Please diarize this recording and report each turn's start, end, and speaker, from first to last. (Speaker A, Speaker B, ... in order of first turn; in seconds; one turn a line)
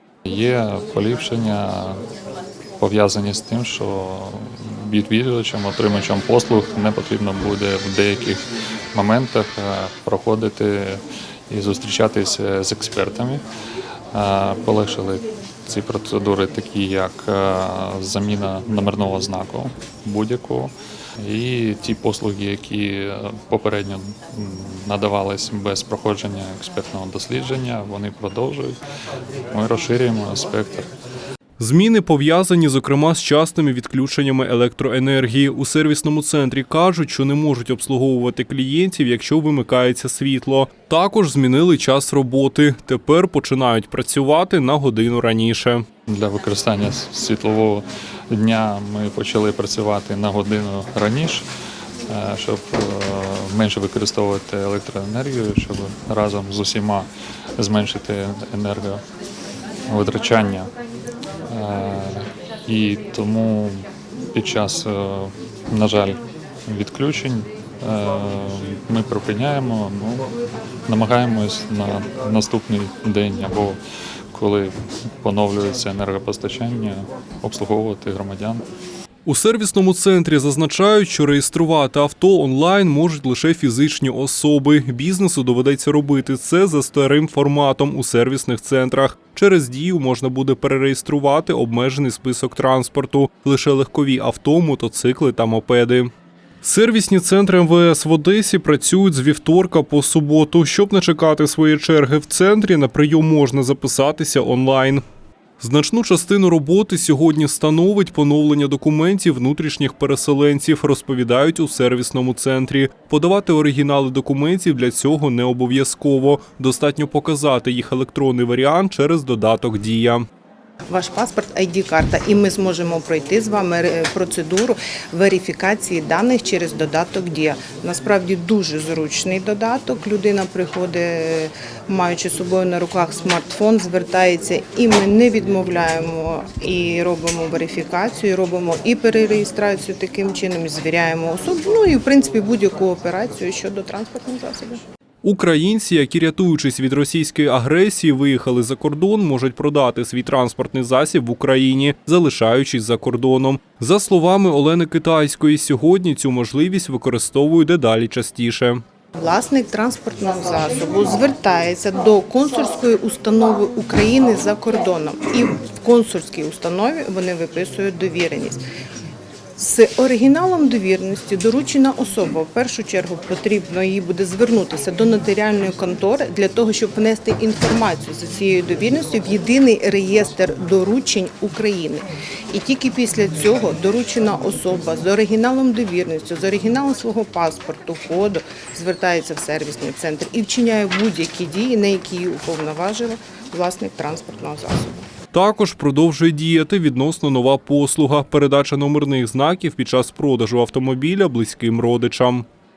Speaker A: 0.3-2.0
Speaker A: 2.8-8.4
Speaker A: 8.9-13.4
Speaker A: 14.1-28.8
Speaker A: 29.5-30.9
Speaker B: 31.6-45.8
Speaker A: 46.1-51.5
Speaker A: 52.1-59.0
Speaker A: 59.9-60.7
Speaker A: 61.5-70.3
Speaker A: 70.9-73.8
Speaker A: 74.3-78.6
Speaker B: 79.3-96.1
Speaker B: 96.6-105.0
Speaker B: 105.6-120.2
Speaker C: 120.9-144.8
Speaker B: 145.2-158.8
Speaker C: 159.2-168.6
Speaker C: 169.6-195.1
Speaker B: 195.3-202.4